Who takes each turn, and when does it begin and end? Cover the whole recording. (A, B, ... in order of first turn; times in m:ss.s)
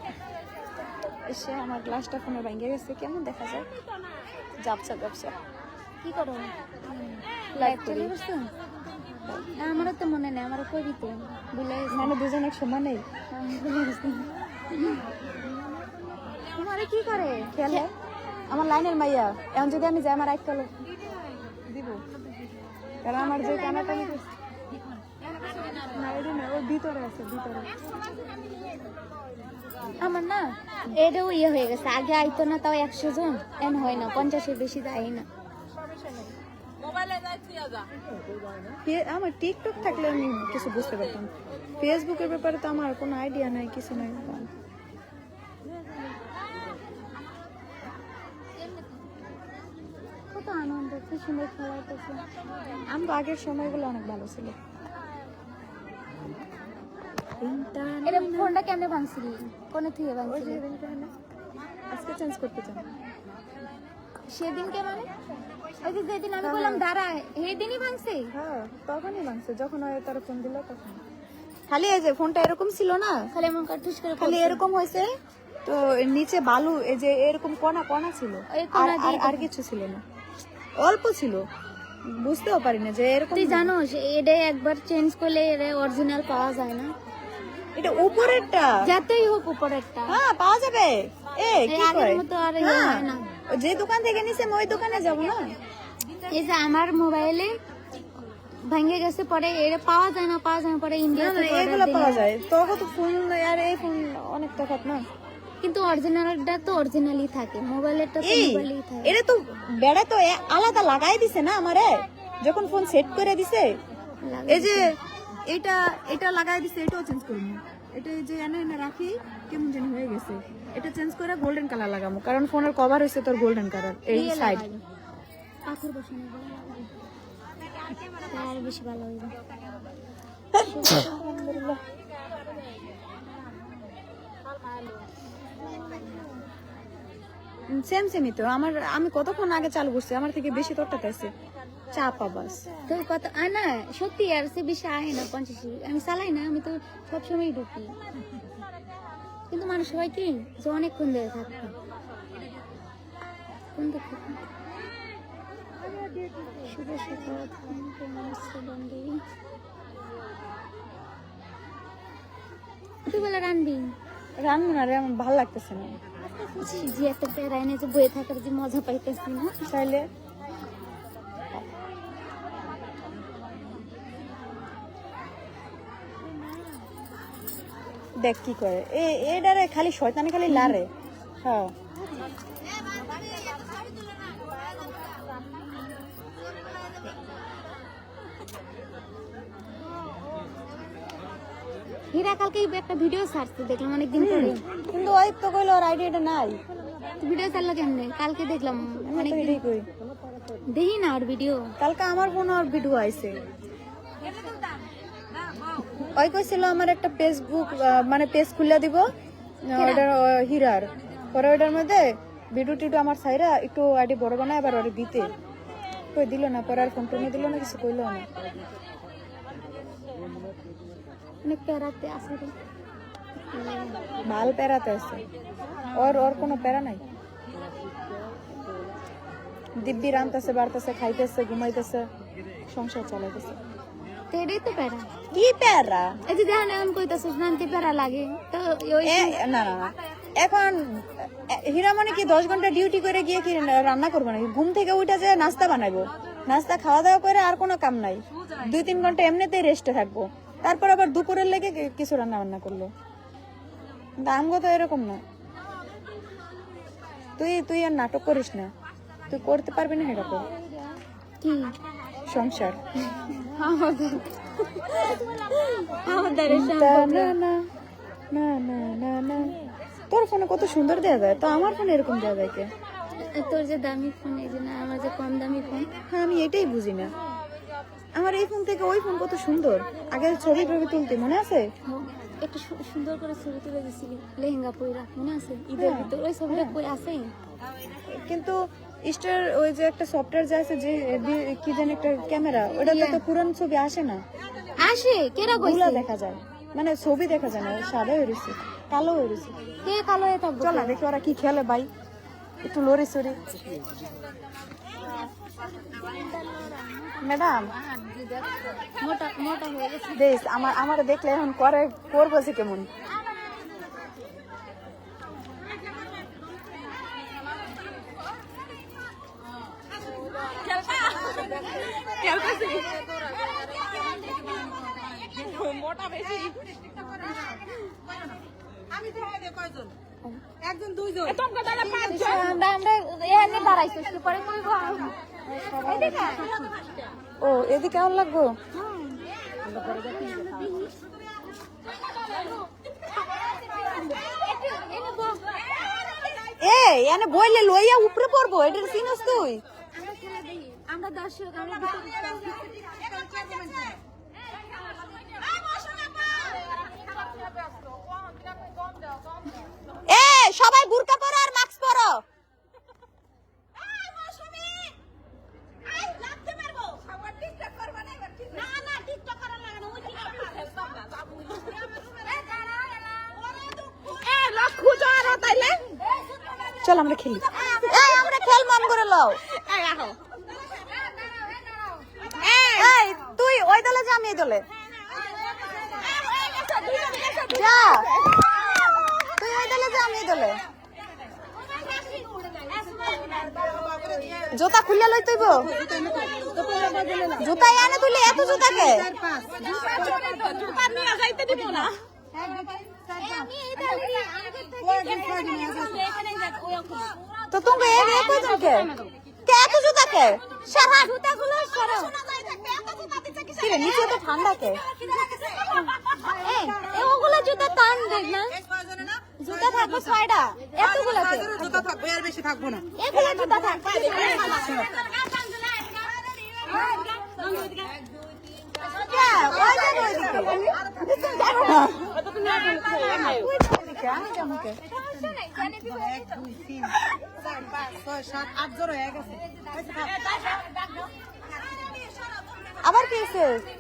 0:01.3-0:03.7 A
0:04.6-0:05.4 A
0:06.0-0:08.5 B
0:07.6-0:08.1 A
0:09.6-0:12.1 B
0:11.9-0:13.0 A
0:13.3-0:15.0 B
0:16.6-0:17.8 B
0:17.5-0:17.9 A
0:18.5-0:20.7 A
0:21.7-0:22.0 A
0:23.0-0:24.3 A
0:23.2-0:24.2 B
0:25.9-0:27.7 A
0:30.0-0:35.3 B
0:38.8-0:44.5 A
0:50.3-0:52.2 B
0:52.9-0:54.6 A
0:57.4-0:58.5 A
0:58.0-1:00.6 B
1:00.3-1:01.1 A
1:01.9-1:02.9 A
1:04.3-1:05.1 B
1:05.8-1:08.3 B
1:06.4-1:06.8 A
1:08.3-1:11.0 A
1:11.7-1:13.2 A
1:13.3-1:14.6 B
1:14.2-1:15.1 A
1:15.6-1:20.0 A
1:18.5-1:19.5 B
1:20.8-1:21.5 A
1:22.1-1:23.7 A
1:23.3-1:26.9 B
1:27.8-1:28.9 A
1:28.8-1:30.2 B
1:30.1-1:35.6 A
1:31.7-1:33.2 B
1:36.3-1:37.6 B
1:38.6-1:42.3 B
1:41.1-1:45.1 A
1:45.6-1:49.2 B
1:48.2-1:53.8 A
1:54.2-1:54.9 B
1:54.5-2:04.7 A
2:04.1-2:04.8 B
2:05.7-2:06.9 B
2:08.3-2:09.3 B
2:10.5-2:11.8 A
2:10.6-2:11.3 B
2:17.7-2:21.3 A
2:21.9-2:22.7 A
2:22.9-2:27.9 B
2:29.5-2:31.7 B
2:33.8-2:34.4 B
2:36.6-2:39.2 B
2:43.1-2:43.9 B
2:44.4-2:46.0 A
2:46.5-2:49.6 B
2:49.7-2:50.1 A
2:58.2-3:00.9 A
3:01.4-3:01.7 A
3:12.1-3:14.6 B
3:14.2-3:16.6 A
3:17.2-3:19.6 B
3:19.1-3:19.9 A
3:20.7-3:21.7 B
3:21.8-3:23.4 A
3:26.1-3:29.1 A
3:29.7-3:35.3 A
3:29.8-3:30.1 B
3:36.1-3:38.3 A
3:41.4-3:42.5 B
3:43.5-3:44.1 B
3:44.2-3:45.2 A
3:45.9-3:47.0 A
3:49.8-3:52.1 A
3:52.7-3:53.6 A
3:54.3-3:55.1 B
3:55.3-3:56.2 A
3:56.3-3:59.4 B
3:59.0-4:12.9 A
4:14.2-4:15.2 A
4:17.4-4:18.7 A
4:19.3-4:20.5 A
4:21.4-4:21.8 B
4:22.3-4:22.8 A
4:23.2-4:27.4 B
4:26.5-4:27.7 A
4:28.3-4:29.6 A
4:30.1-4:32.7 A
4:33.2-4:35.9 B
4:36.1-4:37.2 A
4:38.1-4:41.7 A
4:41.9-4:47.3 B
4:45.7-4:46.8 A
4:48.1-4:54.2 A
4:52.7-4:53.2 B
4:54.8-4:56.1 B
4:55.6-4:59.6 A
4:59.8-5:01.0 B
5:00.6-5:01.9 A
5:02.6-5:03.4 A
5:05.1-5:07.2 B
5:07.2-5:07.7 A
5:09.0-5:10.2 B
5:10.1-5:12.9 A
5:22.4-5:22.8 B
5:30.9-5:31.4 C
5:31.6-5:36.6 B
5:37.4-5:38.6 A
5:39.7-5:41.0 B
5:44.1-5:45.6 B
5:46.6-5:49.6 A
5:49.9-5:52.8 B
6:00.1-6:02.2 A
6:15.3-6:15.7 B
6:16.8-6:19.4 A
6:22.6-6:24.7 A
6:27.4-6:28.2 A
6:29.4-6:30.6 A
6:34.5-6:35.8 A
6:36.1-6:37.3 C
6:37.4-6:39.2 A
6:39.2-6:41.8 C
6:43.1-6:47.1 B
6:47.5-6:48.9 A
6:49.5-6:50.6 A
6:50.6-6:52.2 B
6:52.5-6:53.4 C
6:53.5-6:54.8 A
6:56.3-6:58.6 B
6:59.4-7:01.9 B
7:01.6-7:01.9 A
7:02.0-7:02.8 C
7:03.0-7:04.9 B
7:09.0-7:12.2 A
7:12.9-7:14.8 A
7:16.0-7:16.2 C
7:18.0-7:19.4 C
7:22.8-7:23.7 A